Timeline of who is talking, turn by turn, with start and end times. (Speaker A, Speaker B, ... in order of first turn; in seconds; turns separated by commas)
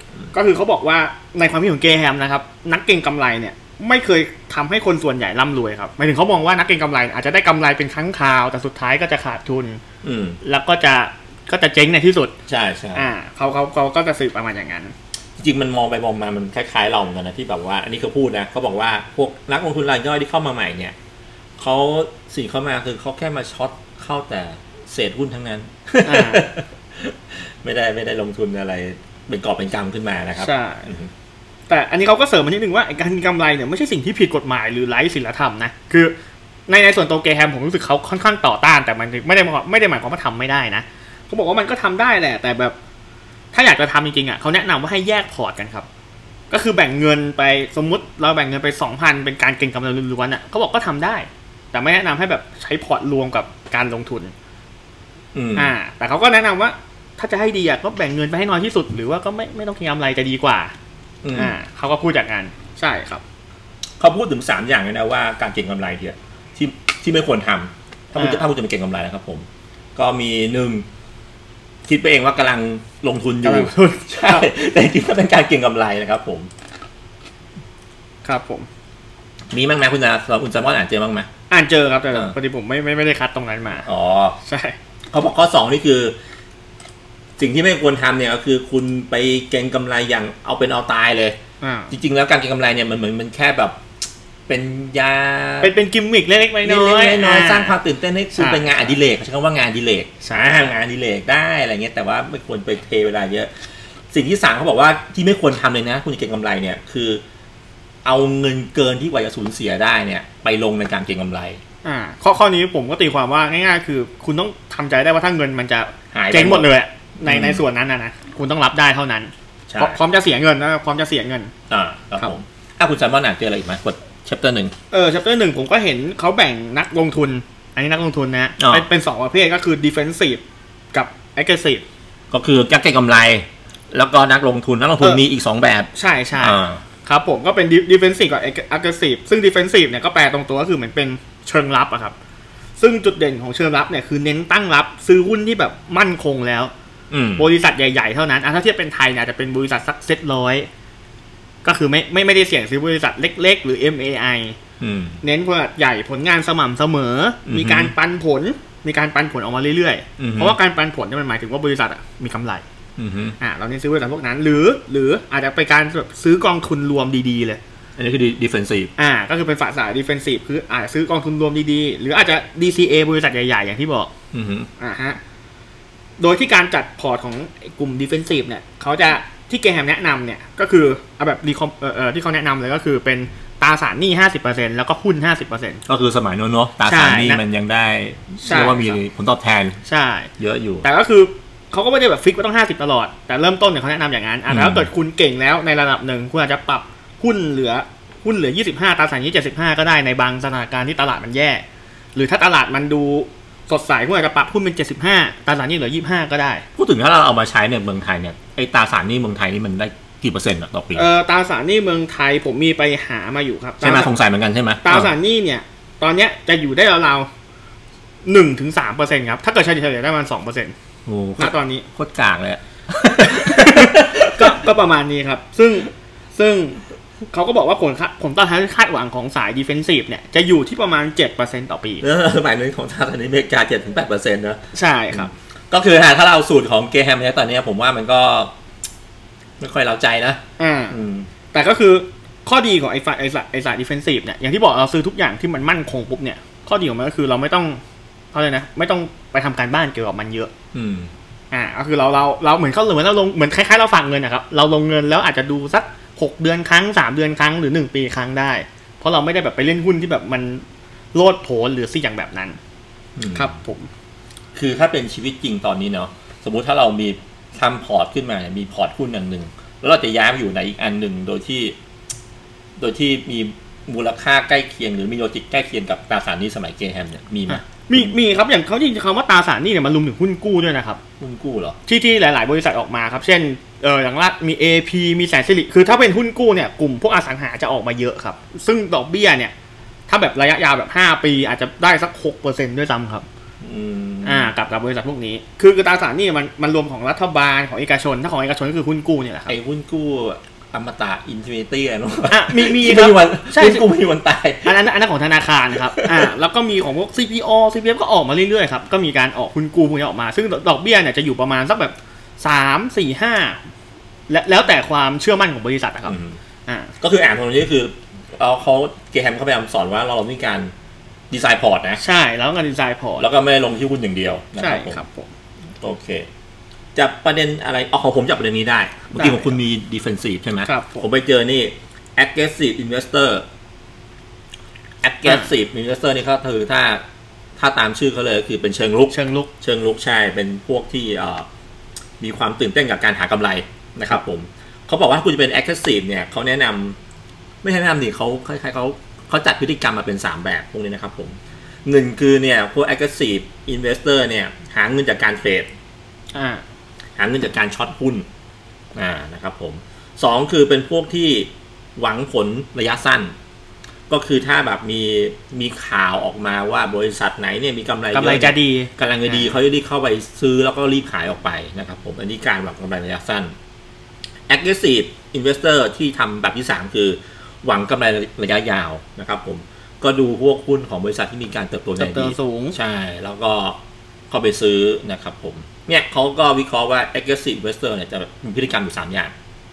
Speaker A: 0.3-9.8, Speaker B: 10.0-10.4, Speaker A: 10.4-12.3, Speaker B: 12.5-13.1, Speaker A: 13.0-14.9, Speaker B: 15.4-20.9, Speaker B: 21.6-31.1, Speaker A: 26.0-26.4, Speaker A: 30.4-30.9, Speaker A: 31.7-36.1, Speaker A: 36.7-42.8, Speaker A: 43.5-45.9, Speaker A: 46.5-54.3, Speaker B: 55.4-55.7, Speaker A: 55.5-60.7, Speaker B: 61.2-61.6, Speaker A: 61.3-63.2, Speaker B: 64.0-70.8, Speaker A: 68.2-68.5, Speaker B: 71.9-76.5, Speaker A: 73.4-74.5, Speaker A: 78.2-78.7, Speaker B: 79.5-81.3, Speaker A: 81.5-83.9, Speaker B: 83.9-84.4, Speaker A: 84.5-84.8, Speaker B: 85.1-86.2, Speaker B: 87.4-91.4, Speaker A: 91.6-91.9, Speaker B: 91.9-93.8, Speaker B: 94.5-95.7, Speaker A: 95.6-97.8, Speaker B: 96.6-103.5, Speaker A: 98.4-98.9, Speaker A: 100.2-100.7, Speaker B: 104.1-107.2, Speaker B: 108.0-111.6, Speaker A: 111.8-121.5, Speaker B: 116.1-116.7, Speaker B: 117.2-117.6, Speaker B: 119.7-120.0, Speaker B: 121.7-124.7, Speaker A: 124.9-131.8, Speaker B: 128.6-128.9, Speaker B: 132.3-136.8, Speaker A: 135.9-142.2, Speaker A: 142.8-146.7, Speaker B: 147.1-147.5, Speaker A: 147.4-150.7, Speaker A: 151.6-154.6, Speaker B: 154.8-155.2, Speaker A: 155.2-162.6, Speaker B: 157.5-157.9, Speaker B: 160.2-160.6, Speaker B: 163.0-163.4, Speaker A: 163.4-167.6, Speaker B: 168.0-168.9, Speaker A: 169.0-174.1, Speaker B: 174.3-174.7, Speaker A: 174.8-175.2, Speaker A: 176.2-185.8, Speaker B: 185.9-189.8, Speaker A: 186.8-187.4, Speaker A: 188.4-189.0, Speaker A: 189.9-190.3, Speaker B: 190.4-190.8, Speaker A: 190.8-206.7, Speaker B: 194.5-194.9, Speaker B: 206.8-211.1, Speaker A: 210.9-214.1, Speaker B: 213.8-215.1, Speaker A: 214.8-217.3, Speaker A: 218.2-220.7, Speaker B: 221.1-224.6, Speaker A: 221.4-221.9, Speaker A: 223.0-232.0, Speaker B: 232.0-234.6, Speaker A: 234.7-235.3, Speaker B: 235.1-238.5, Speaker B: 239.6-241.3, Speaker A: 240.6-241.0, Speaker A: 241.5-247.8, Speaker A: 248.3-250.5, Speaker B: 250.7-251.1, Speaker A: 251.5-262.6, Speaker B: 263.2-263.5, Speaker A: 263.3-263.9, Speaker B: 264.6-271.8, Speaker B: 272.8-278.1, Speaker A: 277.5-281.0, Speaker B: 281.2-281.8, Speaker A: 281.9-289.5, Speaker A: 290.1-293.3, Speaker B: 293.6-294.5, Speaker A: 294.2-299.6, Speaker B: 299.5-304.8, Speaker A: 302.3-303.9, Speaker A: 304.6-313.6, Speaker B: 305.9-306.2, Speaker A: 314.3-316.2, Speaker B: 316.1-316.4, Speaker A: 316.7-316.9, Speaker B: 317.0-320.7, Speaker B: 321.3-322.0, Speaker A: 322.0-323.3, Speaker B: 323.2-325.0, Speaker A: 324.6-325.3, Speaker B: 325.8-326.3, Speaker B: 327.0-333.5, Speaker A: 329.2-329.6, Speaker A: 330.6-331.1, Speaker B: 335.0-337.0, Speaker A: 335.2-335.5, Speaker B: 337.6-341.5, Speaker A: 339.1-339.5, Speaker B: 342.2-347.0, Speaker B: 347.6-355.7, Speaker A: 356.3-356.6, Speaker B: 357.2-358.3, Speaker B: 359.0-363.3, Speaker B: 364.1-373.5, Speaker A: 368.1-369.6, Speaker B: 374.5-383.8, Speaker A: 382.0-382.8, Speaker B: 384.3-389.3